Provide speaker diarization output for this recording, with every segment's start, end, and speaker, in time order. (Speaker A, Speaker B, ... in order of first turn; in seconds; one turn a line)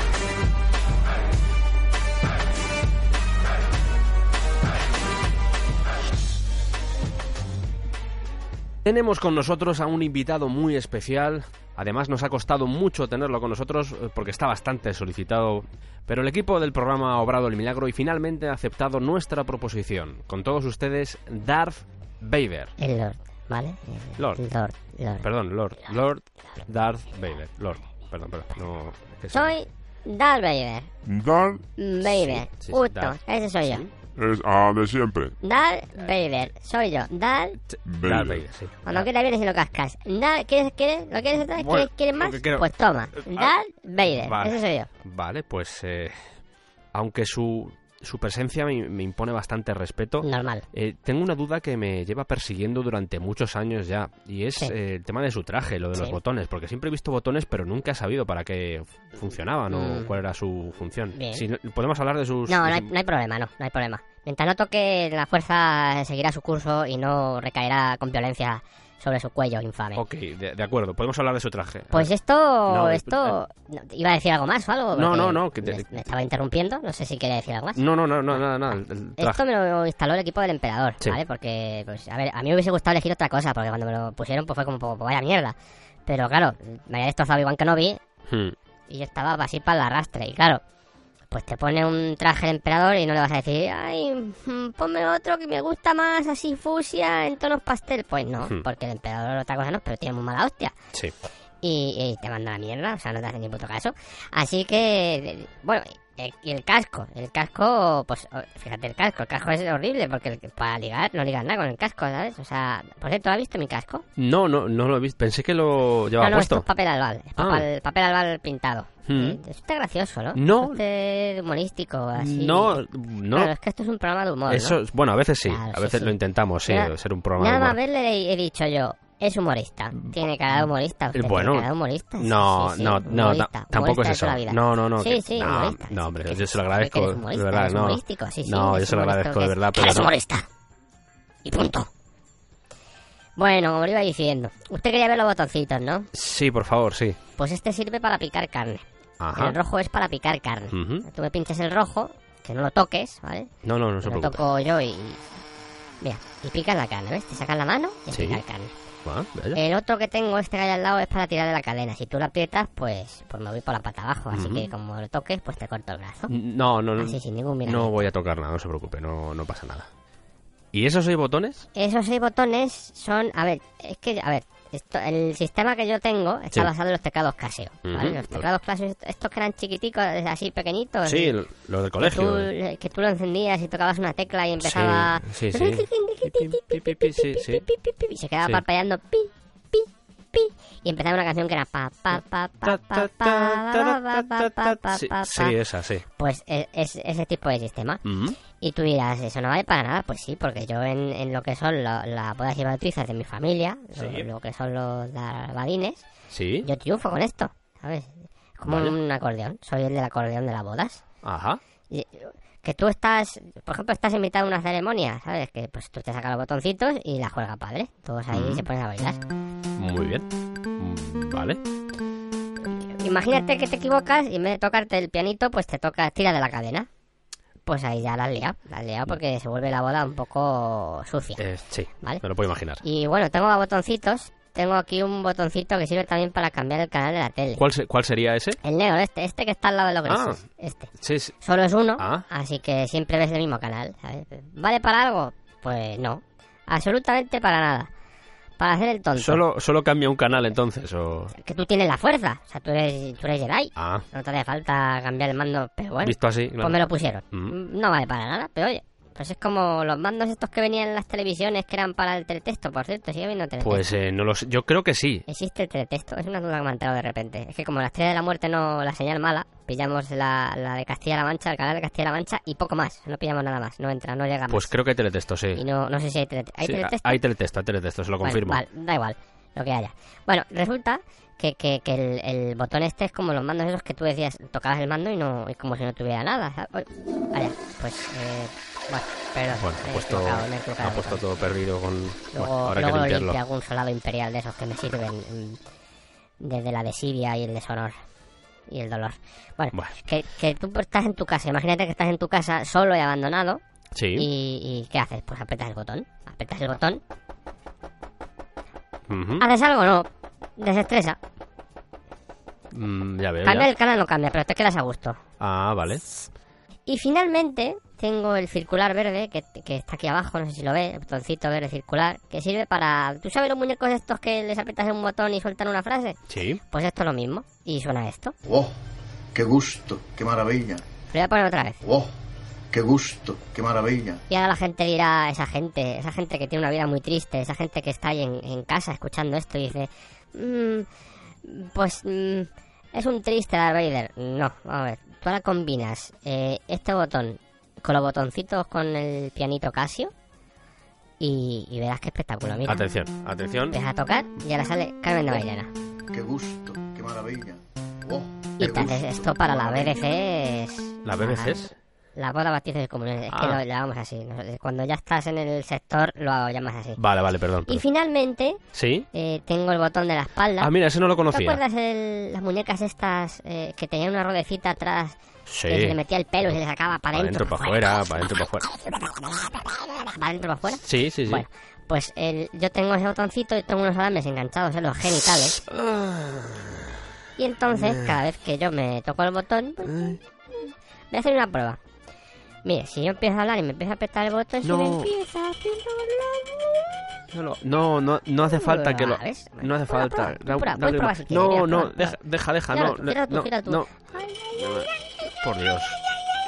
Speaker A: 8.8-22.7
Speaker B: 22.8-25.2
Speaker A: 25.2-29.5
Speaker B: 29.3-30.9
Speaker C: 31.1-31.6
Speaker B: 31.8-33.8
Speaker A: 32.0-33.9
Speaker C: 34.1-35.3
Speaker B: 35.4-37.6
Speaker A: 37.7-39.1
Speaker C: 37.9-38.4
Speaker B: 38.9-44.9
Speaker A: 41.5-42.6
Speaker A: 43.2-43.5
Speaker A: 44.1-46.1
Speaker A: 46.9-62.9
Speaker B: 50.2-50.6
Speaker B: 59.7-60.1
Speaker B: 61.1-61.4
Speaker B: 62.5-70.0
Speaker A: 70.0-72.1
Speaker B: 71.9-78.4
Speaker A: 72.7-73.4
Speaker A: 74.9-75.9
Speaker A: 77.8-79.4
Speaker B: 79.2-85.5
Speaker B: 86.1-88.0
Speaker A: 88.3-88.5
Speaker B: 88.9-90.6
Speaker B: 91.3-100.7
Speaker B: 101.6-114.0
Speaker A: 114.2-116.7
Speaker B: 116.2-122.8
Speaker A: 117.4-117.7
Speaker A: 119.1-119.4
Speaker A: 120.3-120.8
Speaker A: 122.2-123.5
Speaker B: 123.3-124.8
Speaker A: 124.5-127.8
Speaker B: 125.5-126.1
Speaker B: 126.7-140.4
Speaker A: 131.1-131.7
Speaker A: 132.2-140.1
Speaker B: 141.4-141.9
Speaker B: 143.4-146.1
Speaker A: 146.1-147.2
Speaker B: 147.4-148.8
Speaker A: 149.2-149.6
Speaker B: 149.3-153.5
Speaker A: 150.7-151.1
Speaker A: 153.6-154.4
Speaker B: 154.0-155.2
Speaker B: 156.0-158.7
Speaker A: 158.1-158.4
Speaker A: 159.1-159.6
Speaker B: 159.5-166.3
Speaker A: 164.3-164.7
Speaker A: 166.3-169.9
Speaker B: 167.0-168.1
Speaker A: 170.7-171.7
Speaker B: 171.8-181.3
Speaker A: 177.8-178.4
Speaker A: 181.1-182.5
Speaker B: 182.0-195.5
Speaker A: 184.6-187.7
Speaker A: 192.6-196.0
Speaker B: 196.2-198.0
Speaker A: 198.0-198.4
Speaker B: 198.6-206.0
Speaker A: 203.9-204.2
Speaker A: 206.3-206.7
Speaker B: 206.6-211.0
Speaker A: 208.7-208.9
Speaker A: 211.2-211.6
Speaker B: 211.9-219.2
Speaker A: 218.3-218.6
Speaker A: 219.8-220.2
Speaker A: 220.8-221.6
Speaker B: 223.0-226.9
Speaker B: 227.7-231.4
Speaker A: 231.4-232.8
Speaker B: 232.8-237.6
Speaker A: 237.6-238.6
Speaker B: 238.6-240.9
Speaker A: 240.1-240.4
Speaker A: 241.0-241.3
Speaker B: 241.4-247.9
Speaker A: 242.0-242.2
Speaker B: 248.6-249.4
Speaker A: 249.2-251.3
Speaker B: 251.3-263.8
Speaker A: 253.8-254.0
Speaker A: 256.0-257.5
Speaker A: 263.6-265.2
Speaker B: 265.3-274.7
Speaker A: 274.5-275.6
Speaker B: 275.6-277.2
Speaker A: 276.6-278.6
Speaker B: 278.2-291.2
Speaker A: 289.5-293.4
Speaker B: 292.3-295.6
Speaker B: 296.4-297.9
Speaker B: 298.7-303.6
Speaker A: 303.9-304.3
Speaker B: 304.2-307.0
Speaker A: 309.1-309.4
Speaker B: 309.4-310.1
Speaker B: 310.6-311.2
Speaker A: 312.7-313.7
Speaker B: 313.4-315.2
Speaker A: 315.4-316.0
Speaker B: 316.9-326.2
Speaker A: 326.3-326.6
Speaker B: 326.7-328.3
Speaker D: 328.4-328.8
Speaker D: 329.3-330.8
Speaker B: 331.1-331.8
Speaker D: 331.8-332.1
Speaker D: 332.7-334.2
Speaker B: 334.3-340.9
Speaker B: 341.4-350.1
Speaker B: 351.2-352.8
Speaker A: 352.6-353.8
Speaker B: 353.7-355.7
Speaker D: 356.1-360.0
Speaker B: 358.6-361.6
Speaker A: 361.0-361.7
Speaker B: 362.1-367.0
Speaker A: 363.3-363.6
Speaker A: 367.0-367.8
Speaker B: 367.7-368.6
Speaker A: 368.7-369.1
Speaker B: 369.1-370.7
Speaker A: 370.6-371.6
Speaker B: 371.3-375.2
Speaker A: 375.5-376.5
Speaker B: 375.7-385.6
Speaker A: 377.1-378.7
Speaker A: 380.8-381.4
Speaker A: 385.7-386.8
Speaker B: 387.4-390.0
Speaker A: 387.7-388.1
Speaker A: 389.8-390.2
Speaker B: 391.1-391.8
Speaker B: 392.6-396.8
Speaker A: 394.6-395.1
Speaker A: 397.3-403.9
Speaker B: 398.5-402.2
Speaker B: 402.7-404.9
Speaker A: 404.5-404.9
Speaker A: 405.4-406.0